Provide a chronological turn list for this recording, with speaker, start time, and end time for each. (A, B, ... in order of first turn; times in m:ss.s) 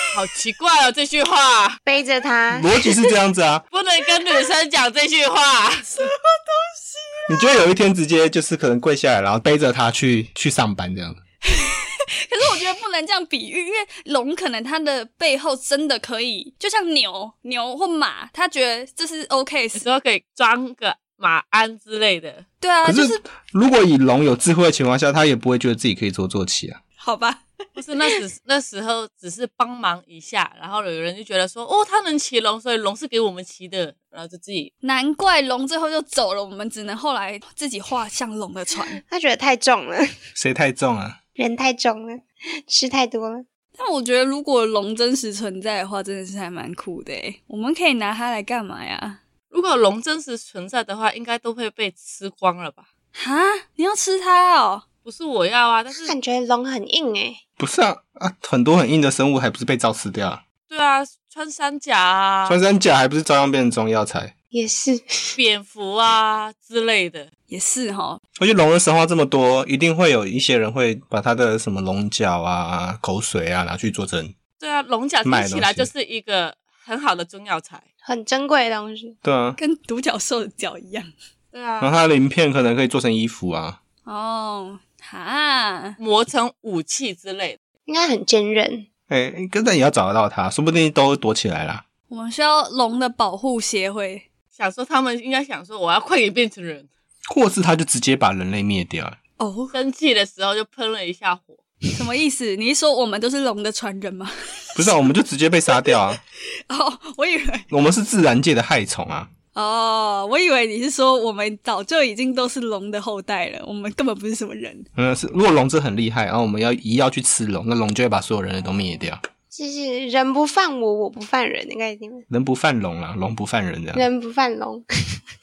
0:00.1-0:01.8 A
0:01.9-0:02.7 B
0:02.5-0:03.6 C
0:03.7-0:06.1 A
0:06.0-0:07.5 D
0:07.3-0:11.2 C
0:11.4-0:19.8 D
0:19.8-0:22.4 A
0:22.6-0:23.2 D
0:22.8-0:26.8 C
0:27.0-0:27.4 D
0:27.8-0:34.7 A
0:34.8-0:39.0 D
0:39.0-0:40.1 B
0:40.4-0:41.2 C
0:41.4-0:43.4 B
0:43.8-0:49.2 D
0:49.5-0:52.8 A
0:53.1-0:54.8 D
0:55.0-0:56.1 A
0:56.0-0:57.4 B
0:57.6-1:00.4 C
1:00.7-1:02.6 A
1:02.5-1:04.3 C
1:04.5-1:05.4 B
1:05.4-1:07.3 A
1:07.5-1:08.2 D
1:08.4-1:14.4 C
1:14.6-1:17.8 A
1:15.2-1:15.9 C
1:18.0-1:19.2 B
1:19.2-1:19.6 C
1:19.6-1:21.1 D
1:21.5-1:21.9 A
1:21.8-1:23.8 C
1:24.1-1:26.0 D
1:26.0-1:27.6 A
1:27.9-1:28.9 B
1:29.1-1:31.8 C
1:32.1-1:34.3 D
1:34.6-1:36.9 A
1:37.3-1:39.2 C
1:39.4-1:39.8 D
1:39.7-1:41.6 A
1:41.9-1:44.9 D
1:44.8-1:46.2 C
1:46.7-1:47.7 D
1:47.7-1:49.3 C
1:49.6-1:54.9 D
1:54.9-1:59.2 C
1:59.5-2:02.3 B
2:02.3-2:04.1 C
2:03.9-2:05.2 B